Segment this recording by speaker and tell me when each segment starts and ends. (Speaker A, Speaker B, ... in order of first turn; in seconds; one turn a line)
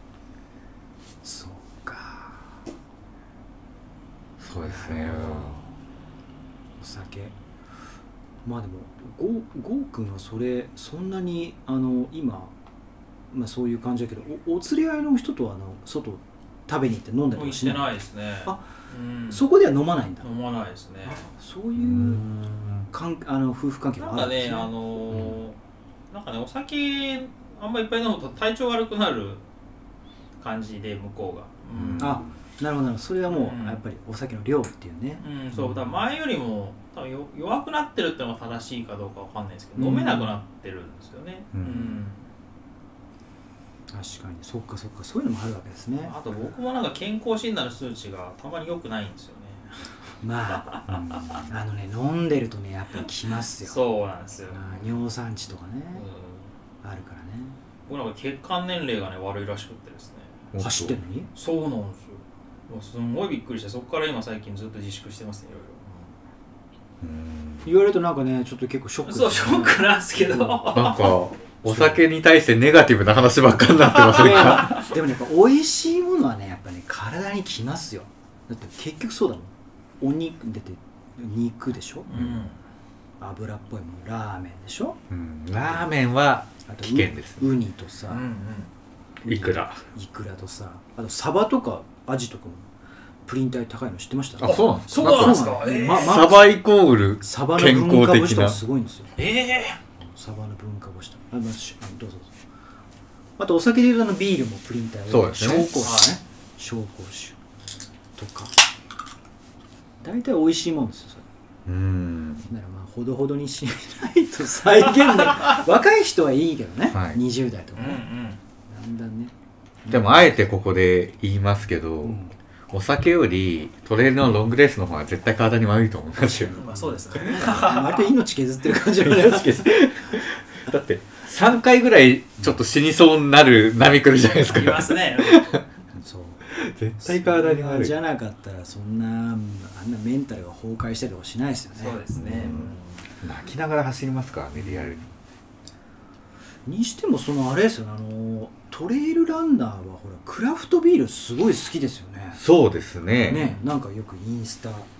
Speaker A: 1.2-2.5
Speaker B: 4.4-5.6
Speaker A: 4.6-5.7
Speaker A: 6.8-7.4
Speaker A: 8.4-12.5
Speaker A: 13.3-17.9
Speaker C: 17.4-19.5
Speaker A: 19.3-20.3
Speaker C: 20.2-21.2
Speaker A: 21.1-22.2
Speaker B: 21.8-22.9
Speaker A: 22.9-24.7
Speaker C: 24.0-25.6
Speaker C: 26.1-29.4
Speaker C: 30.4-32.2
Speaker B: 31.7-32.4
Speaker A: 32.0-35.8
Speaker C: 33.3-33.8
Speaker C: 35.2-42.2
Speaker A: 39.8-40.4
Speaker B: 41.5-42.0
Speaker A: 43.9-46.1
Speaker C: 46.0-49.7
Speaker A: 50.2-50.8
Speaker C: 50.6-51.4
Speaker B: 50.9-51.5
Speaker A: 51.5-53.8
Speaker C: 53.6-54.7
Speaker A: 54.5-56.0
Speaker C: 56.0-56.5
Speaker A: 56.8-57.6
Speaker C: 57.9-60.4
Speaker B: 60.5-61.0
Speaker A: 60.6-61.3
Speaker C: 61.4-66.2
Speaker B: 67.0-67.7
Speaker A: 67.7-70.6
Speaker C: 69.0-71.2
Speaker B: 70.7-74.8
Speaker A: 71.7-72.0
Speaker C: 74.0-74.8
Speaker A: 74.2-82.1
Speaker C: 82.1-82.6
Speaker B: 82.1-82.4
Speaker A: 83.2-85.0
Speaker B: 85.1-87.5
Speaker A: 85.6-85.9
Speaker A: 86.7-88.3
Speaker C: 88.1-88.7
Speaker A: 89.2-92.7
Speaker B: 89.2-89.8
Speaker A: 93.3-96.5
Speaker B: 94.4-98.6
Speaker C: 94.4-96.2
Speaker A: 97.2-99.2
Speaker C: 99.2-99.8
Speaker A: 100.0-102.3
Speaker A: 103.4-107.4
Speaker B: 105.1-105.7
Speaker C: 105.8-106.2
Speaker A: 108.2-108.5
Speaker A: 110.0-111.2
Speaker B: 111.7-112.5
Speaker A: 112.5-118.0
Speaker B: 116.9-117.2
Speaker C: 117.8-118.4
Speaker A: 118.7-119.3
Speaker A: 119.8-120.4
Speaker B: 119.9-126.6
Speaker A: 122.0-122.3
Speaker A: 126.3-130.2
Speaker C: 126.6-128.1
Speaker B: 128.9-135.6
Speaker C: 134.2-135.5
Speaker A: 135.9-136.5
Speaker B: 136.5-137.9
Speaker A: 137.0-142.7
Speaker C: 141.8-143.0
Speaker B: 142.2-145.1
Speaker A: 144.6-145.1
Speaker A: 146.7-152.4
Speaker B: 152.4-153.4
Speaker A: 153.3-154.9
Speaker C: 153.3-153.6